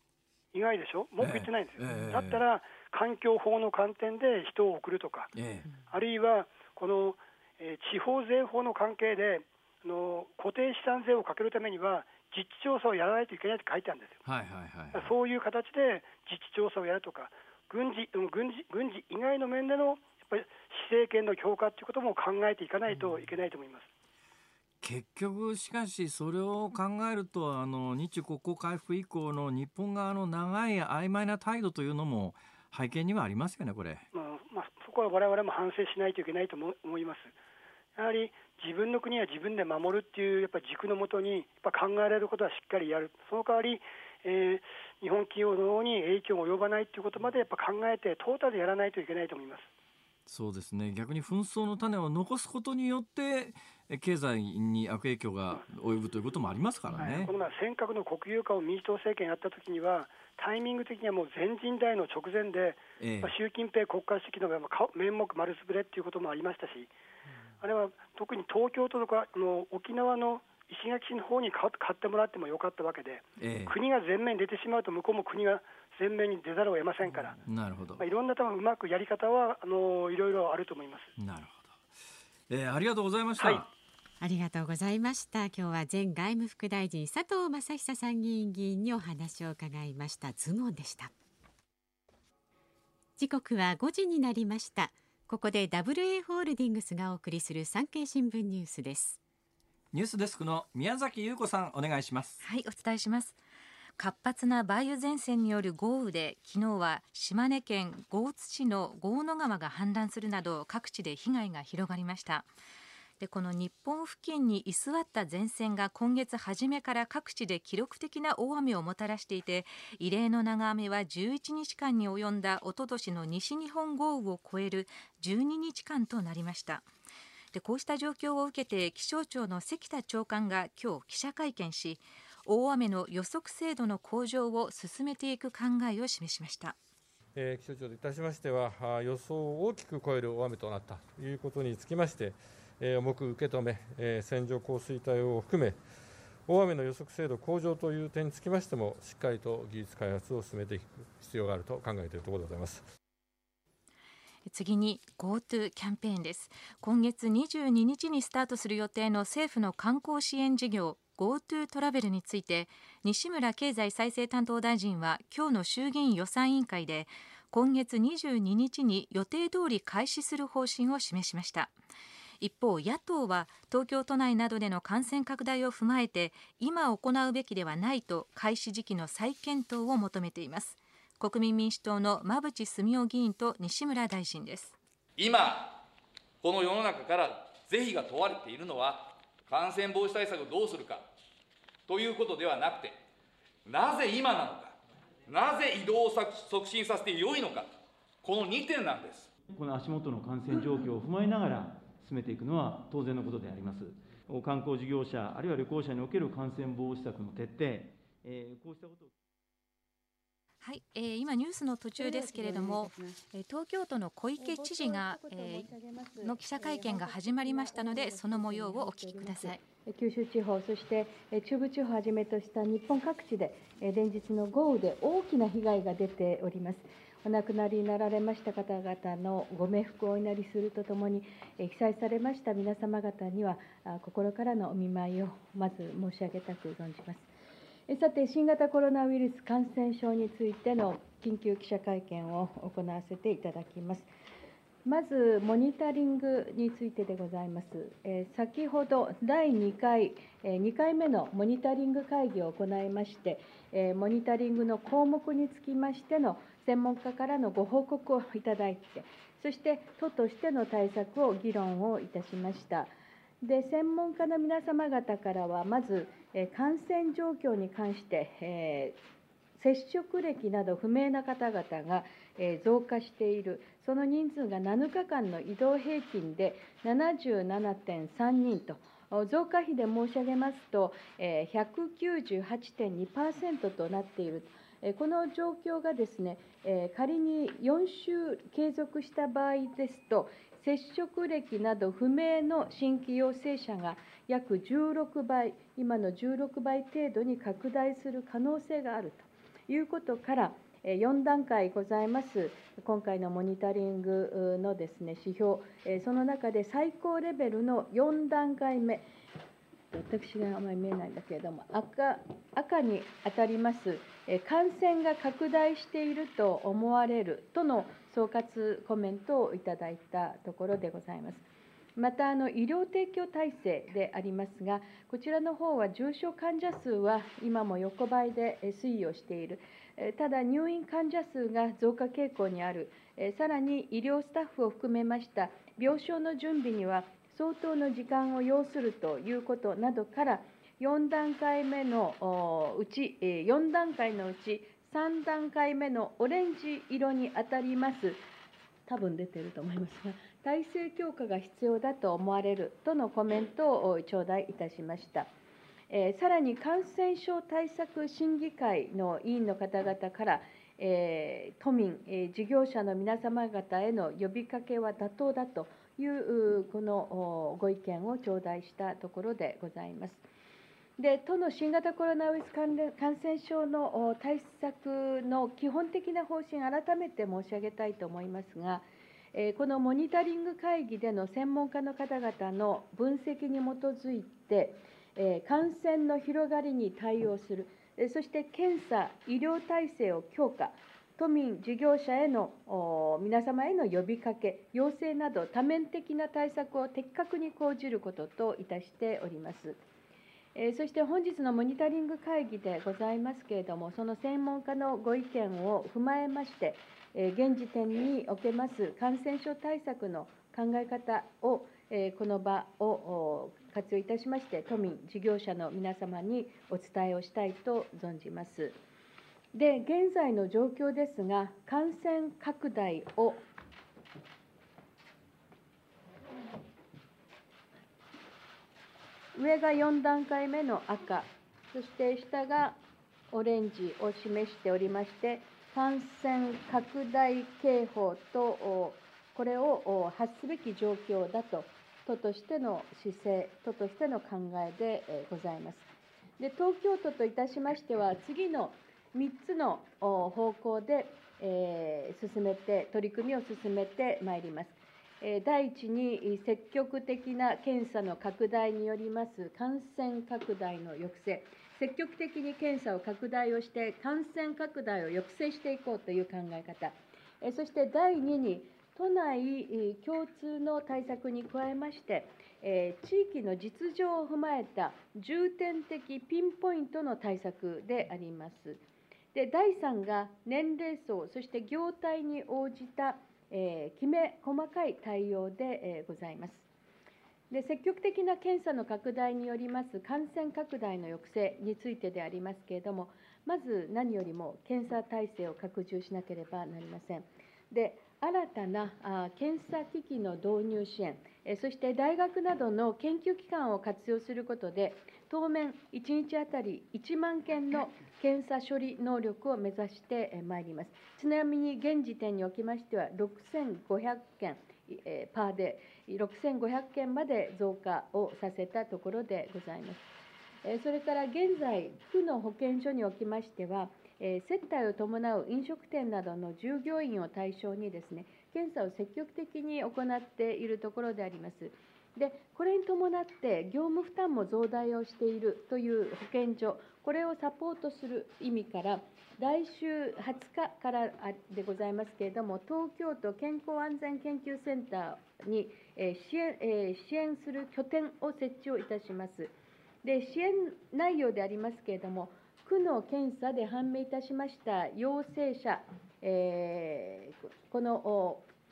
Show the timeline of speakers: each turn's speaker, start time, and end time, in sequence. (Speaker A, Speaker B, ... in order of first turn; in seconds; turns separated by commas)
Speaker A: 0.5-5.3, Speaker B: 1.2-2.4, Speaker B: 5.3-5.7, Speaker A: 5.9-14.2, Speaker B: 14.2-15.1, Speaker A: 14.9-23.9, Speaker B: 24.8-34.0, Speaker A: 34.1-37.3, Speaker A: 38.0-49.7, Speaker B: 50.3-57.3, Speaker A: 57.0-66.9, Speaker B: 63.0-63.3, Speaker A: 67.6-77.4, Speaker B: 73.4-73.7, Speaker B: 77.5-78.0, Speaker A: 78.0-81.1, Speaker B: 81.2-81.8, Speaker B: 82.5-83.7, Speaker C: 84.2-91.1, Speaker C: 93.2-99.2, Speaker B: 99.9-102.4, Speaker D: 102.4-103.4, Speaker D: 104.0-112.5, Speaker D: 113.2-126.9, Speaker D: 127.5-136.8, Speaker E: 137.3-145.8, Speaker E: 146.5-152.8, Speaker D: 154.5-171.7, Speaker D: 172.4-184.8, Speaker F: 185.2-185.8, Speaker F: 186.4-191.1, Speaker F: 191.9-193.0, Speaker F: 193.7-197.7, Speaker F: 198.2-199.4, Speaker G: 199.5-209.1, Speaker F: 200.5-200.9, Speaker D: 210.6-215.7, Speaker H: 212.0-212.9, Speaker H: 214.4-237.3, Speaker D: 216.2-219.6, Speaker H: 237.9-244.1, Speaker H: 244.8-269.0, Speaker H: 269.6-309.1, Speaker H: 309.9-321.4, Speaker H: 322.0-348.2, Speaker H: 348.9-355.3, Speaker H: 355.9-370.2, Speaker H: 371.0-399.8, Speaker H: 400.6-418.8, Speaker H: 419.5-423.4, Speaker H: 429.4-432.8, Speaker H: 433.3-445.9, Speaker H: 446.4-478.8, Speaker H: 479.3-486.6, Speaker H: 487.5-520.0, Speaker H: 520.6-558.5